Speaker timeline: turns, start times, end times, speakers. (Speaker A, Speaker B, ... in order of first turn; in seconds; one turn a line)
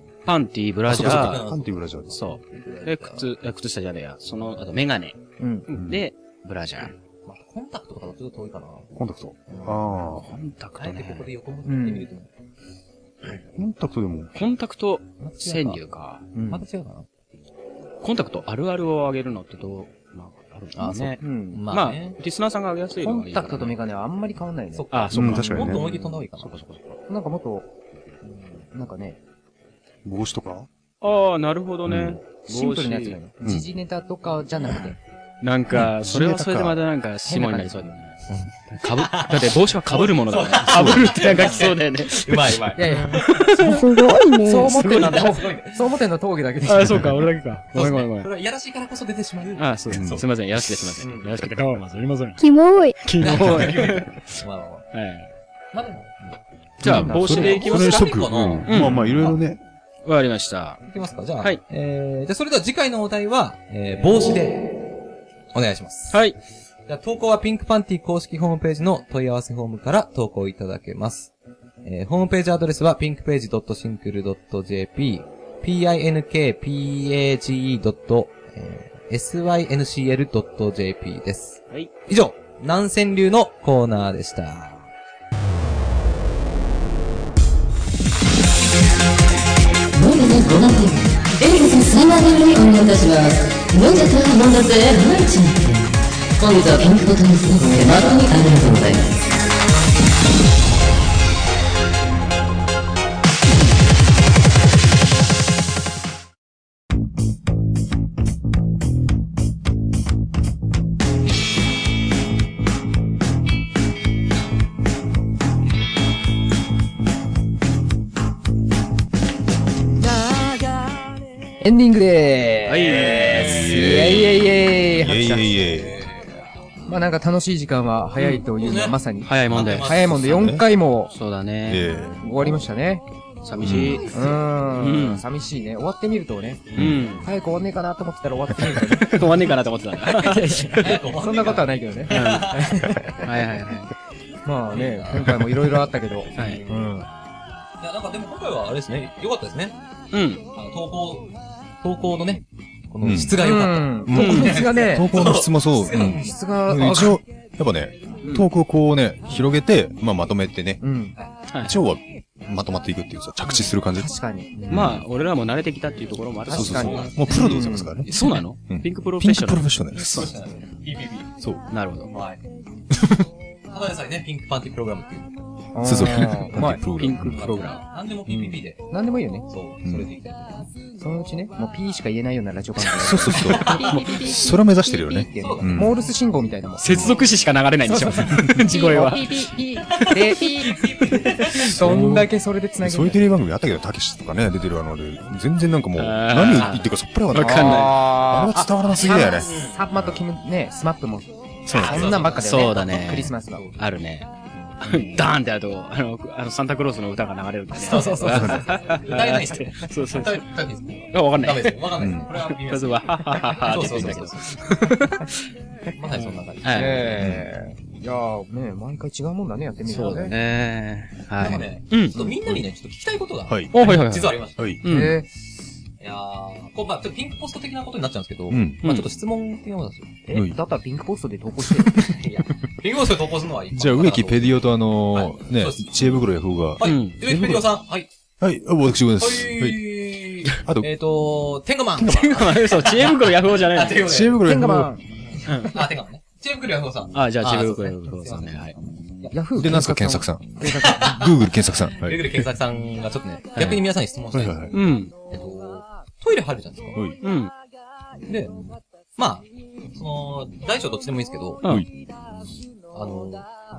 Speaker A: 0.2-1.4
Speaker B: 0.8-3.3
Speaker C: 0.9-2.2
Speaker A: 2.1-6.9
Speaker D: 5.4-5.7
Speaker C: 5.7-6.0
Speaker B: 7.2-8.9
Speaker C: 8.9-10.3
Speaker B: 9.5-9.8
Speaker A: 10.1-11.3
Speaker B: 10.8-12.3
Speaker D: 11.6-12.1
Speaker C: 13.5-14.4
Speaker A: 14.3-16.2
Speaker B: 15.2-15.8
Speaker B: 16.4-17.1
Speaker A: 18.0-21.2
Speaker B: 20.7-22.2
Speaker D: 21.2-21.6
Speaker A: 21.7-23.7
Speaker D: 23.0-24.8
Speaker B: 24.7-26.5
Speaker A: 24.9-26.0
Speaker C: 25.1-26.9
Speaker D: 27.1-27.7
Speaker B: 28.2-28.6
Speaker D: 28.7-29.2
Speaker C: 30.0-30.7
Speaker A: 31.0-33.2
Speaker C: 31.9-32.2
Speaker D: 32.5-35.0
Speaker C: 33.4-33.7
Speaker A: 35.4-38.2
Speaker C: 35.7-36.8
Speaker D: 37.3-37.9
Speaker B: 38.3-43.6
Speaker A: 38.7-43.7
Speaker C: 40.7-41.3
Speaker D: 42.7-47.1
Speaker E: 43.6-45.0
Speaker B: 44.7-45.9
Speaker A: 44.9-45.2
Speaker A: 46.6-48.3
Speaker B: 47.7-50.2
Speaker A: 49.5-52.4
Speaker C: 49.9-50.2
Speaker B: 51.0-51.4
Speaker E: 52.4-53.1
Speaker A: 53.0-54.3
Speaker B: 53.2-54.9
Speaker A: 54.9-55.3
Speaker B: 55.7-56.4
Speaker C: 56.8-59.6
Speaker A: 56.8-58.1
Speaker B: 57.0-59.4
Speaker D: 57.0-57.6
Speaker A: 58.6-59.3
Speaker A: 60.0-60.8
Speaker B: 60.9-65.0
Speaker B: 65.5-66.2
Speaker A: 66.1-66.3
Speaker B: 66.9-84.9
Speaker F: 89.9-99.2
Speaker D: 121.6-125.6
Speaker A: 122.7-123.9
Speaker B: 122.8-123.9
Speaker C: 123.3-126.0
Speaker B: 125.5-126.4
Speaker D: 126.9-131.1
Speaker A: 128.2-128.4
Speaker B: 128.6-130.1
Speaker A: 129.2-130.1
Speaker C: 129.5-130.7
Speaker A: 131.1-131.8
Speaker C: 131.7-132.5
Speaker D: 132.2-133.0
Speaker A: 133.4-135.2
Speaker C: 133.6-134.0
Speaker B: 133.7-134.4
Speaker D: 134.1-139.4
Speaker C: 136.7-137.1
Speaker A: 136.8-137.3
Speaker A: 139.0-141.0
Speaker D: 140.1-143.2
Speaker B: 140.7-142.9
Speaker A: 142.1-142.5
Speaker A: 143.2-143.9
Speaker D: 144.4-147.1
Speaker B: 144.7-145.5
Speaker B: 146.3-146.9
Speaker A: 146.3-146.6
Speaker B: 147.8-149.8
Speaker A: 150.1-150.4
Speaker B: 150.5-151.3
Speaker B: 151.8-156.4
Speaker C: 153.0-153.4
Speaker D: 153.4-155.2
Speaker C: 154.1-160.8
Speaker A: 154.1-154.7
Speaker D: 156.2-157.2
Speaker D: 160.8-161.2
Speaker C: 161.6-165.0
Speaker D: 163.9-164.5
Speaker B: 164.6-165.0
Speaker A: 164.7-167.2
Speaker D: 166.5-167.9
Speaker B: 166.5-167.5
Speaker C: 166.5-168.1
Speaker B: 168.1-168.4
Speaker A: 168.1-169.7
Speaker C: 168.7-170.3
Speaker B: 169.9-171.3
Speaker A: 171.7-172.1
Speaker B: 172.1-172.4
Speaker C: 172.9-173.2
Speaker B: 173.7-175.3
Speaker D: 175.7-176.8
Speaker C: 175.8-177.6
Speaker B: 176.2-178.9
Speaker A: 177.0-177.8
Speaker C: 178.3-178.6
Speaker D: 178.9-179.4
Speaker B: 179.5-180.7
Speaker C: 179.8-180.1
Speaker D: 181.0-186.9
Speaker C: 182.9-185.9
Speaker B: 183.3-184.0
Speaker A: 183.7-184.1
Speaker B: 185.3-186.0
Speaker A: 186.8-189.5
Speaker D: 187.8-193.3
Speaker B: 190.0-191.7
Speaker A: 190.0-190.8
Speaker A: 191.8-192.3
Speaker C: 191.8-192.2
Speaker C: 192.8-200.2
Speaker A: 196.0-198.1
Speaker B: 196.5-196.8
Speaker D: 197.3-203.6
Speaker B: 198.9-199.8
Speaker C: 201.7-202.2
Speaker B: 201.7-203.8
Speaker A: 201.7-204.3
Speaker A: 204.8-210.4
Speaker B: 207.7-214.7
Speaker D: 207.9-208.2
Speaker C: 208.3-208.6
Speaker A: 211.1-215.3
Speaker C: 212.0-212.3
Speaker B: 215.9-217.2
Speaker A: 216.1-217.2
Speaker D: 216.7-220.3
Speaker C: 217.2-217.4
Speaker A: 219.9-222.2
Speaker B: 219.9-220.2
Speaker B: 221.4-224.8
Speaker C: 222.2-222.6
Speaker C: 223.5-223.8
Speaker A: 223.7-225.2
Speaker C: 224.6-224.8
Speaker D: 224.8-225.3
Speaker B: 226.0-230.2
Speaker C: 228.5-228.8
Speaker A: 228.8-229.1
Speaker D: 230.3-232.1
Speaker C: 230.3-230.6
Speaker C: 231.8-232.2
Speaker B: 231.9-238.1
Speaker C: 233.7-237.7
Speaker A: 236.8-237.2
Speaker C: 238.4-239.9
Speaker B: 239.2-244.4
Speaker C: 240.5-240.9
Speaker C: 242.0-242.5
Speaker A: 242.1-244.1
Speaker C: 244.0-244.9
Speaker D: 244.4-245.0
Speaker B: 245.2-249.3
Speaker A: 245.5-245.8
Speaker A: 247.1-248.7
Speaker D: 249.3-251.3
Speaker C: 249.6-252.4
Speaker B: 250.7-251.4
Speaker B: 252.0-257.1
Speaker C: 254.3-254.8
Speaker A: 254.7-255.1
Speaker A: 257.2-257.5
Speaker B: 258.3-261.6
Speaker B: 262.9-263.5